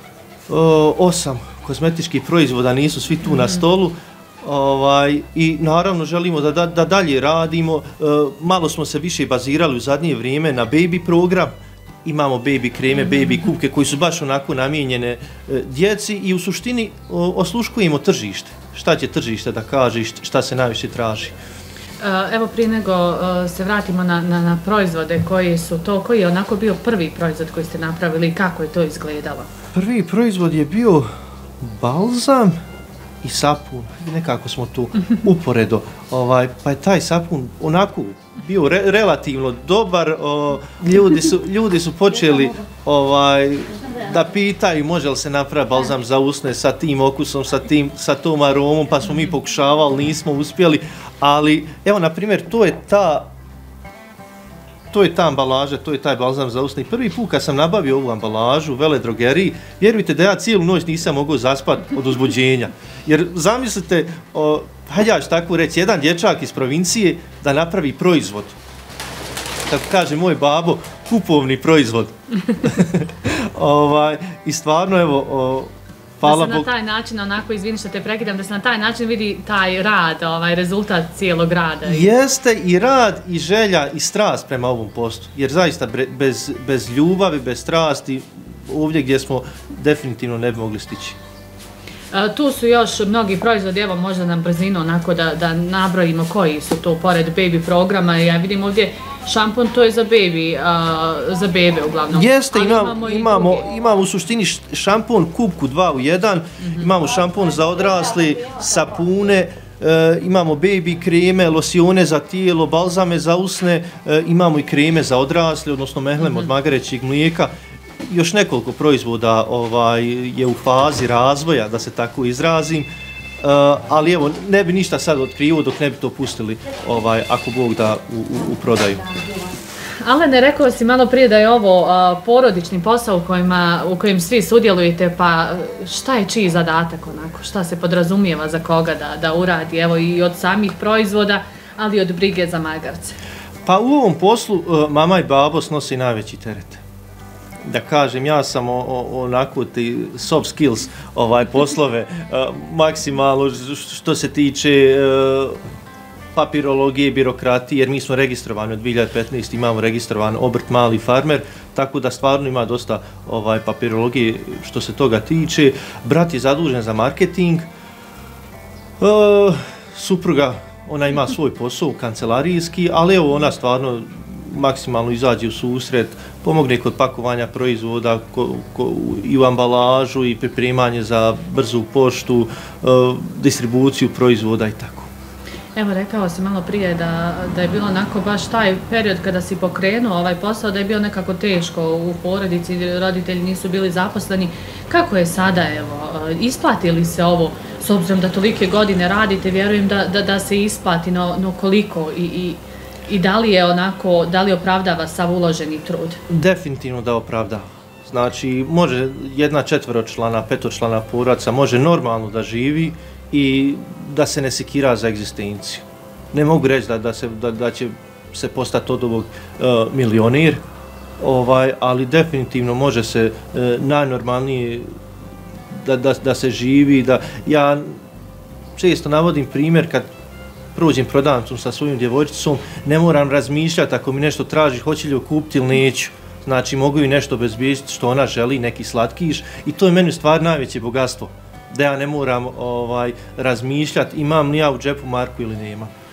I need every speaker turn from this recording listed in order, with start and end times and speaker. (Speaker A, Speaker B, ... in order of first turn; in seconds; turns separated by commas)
Speaker A: 0.5-11.5, Speaker A: 12.0-21.3, Speaker B: 22.0-29.5, Speaker A: 29.7-31.1, Speaker A: 31.6-32.6, Speaker A: 33.2-53.3, Speaker A: 54.9-68.5, Speaker A: 69.7-76.7, Speaker B: 76.2-82.1, Speaker A: 81.8-91.2, Speaker B: 92.1-103.7, Speaker A: 102.1-117.5, Speaker B: 106.6-106.9, Speaker A: 118.0-122.9, Speaker A: 123.4-129.1, Speaker B: 130.0-143.2, Speaker A: 143.6-146.8, Speaker A: 147.6-155.6, Speaker A: 156.3-167.7, Speaker A: 169.0-185.1, Speaker B: 185.7-206.2, Speaker A: 206.3-220.6, Speaker A: 221.2-224.9, Speaker A: 225.7-228.0, Speaker A: 228.8-230.1, Speaker A: 230.7-245.9